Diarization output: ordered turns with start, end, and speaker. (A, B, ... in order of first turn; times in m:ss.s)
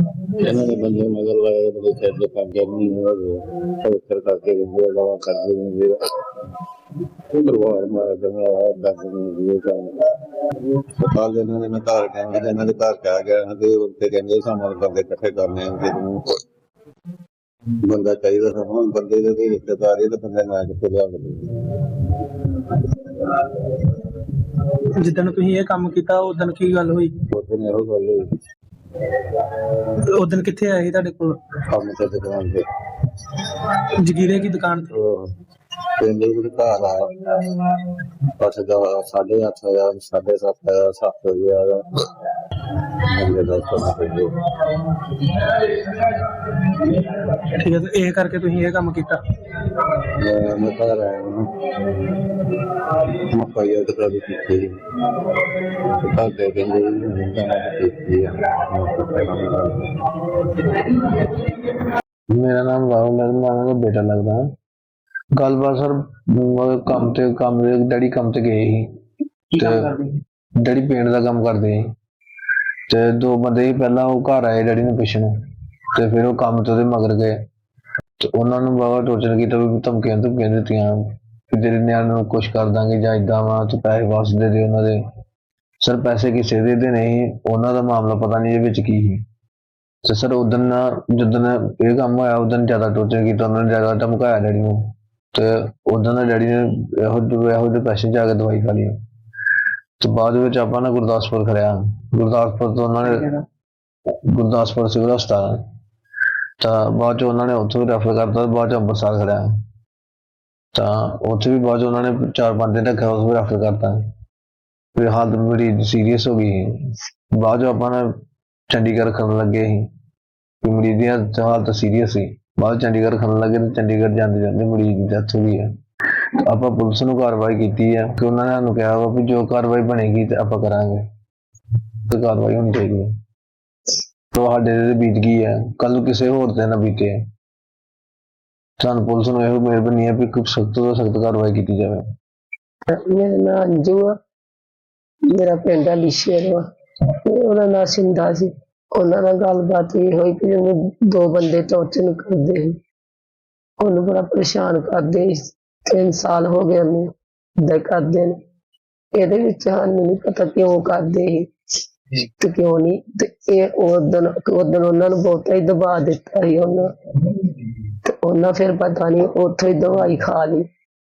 0:00.4-0:06.0 A
0:07.3-0:09.9 A
0:11.0-0:16.2 A
0:17.8-0:21.6 A
0:25.0-0:27.1 B
0:27.3-0:28.3 A
0:30.1-0:31.4 B
0:31.7-0:32.6 A
0:34.0-0:34.9 B
0:34.9-0:35.3 A
0:36.0-0:37.5 A
0:38.4-0:42.0 A
0:43.0-0:44.3 A
0:47.4-0:49.2 B
0:50.2-0:51.5 A
0:53.3-0:54.7 A
0:55.8-0:59.9 A
1:02.3-1:04.5 C
1:05.4-1:08.9 C
1:09.5-1:10.0 C
1:10.6-1:11.8 C
1:12.9-1:15.3 C
1:15.9-1:17.4 C
1:18.2-1:25.0 C
1:25.8-1:29.2 C
1:30.0-1:39.0 C
1:40.0-1:43.3 C
1:44.3-1:45.6 C
1:46.6-1:49.5 C
1:50.7-1:54.0 C
1:55.0-1:58.1 C
1:58.7-1:59.9 C
2:00.6-2:05.7 C
2:06.4-2:11.0 C
2:12.1-2:13.1 C
2:14.3-2:17.2 C
2:18.8-2:22.0 C
2:22.9-2:24.1 D
2:25.3-2:26.6 D
2:27.2-2:32.7 D
2:33.8-2:37.1 D
2:37.6-2:38.4 D
2:39.1-2:41.4 D
2:42.4-2:46.9 D
2:48.0-2:50.6 D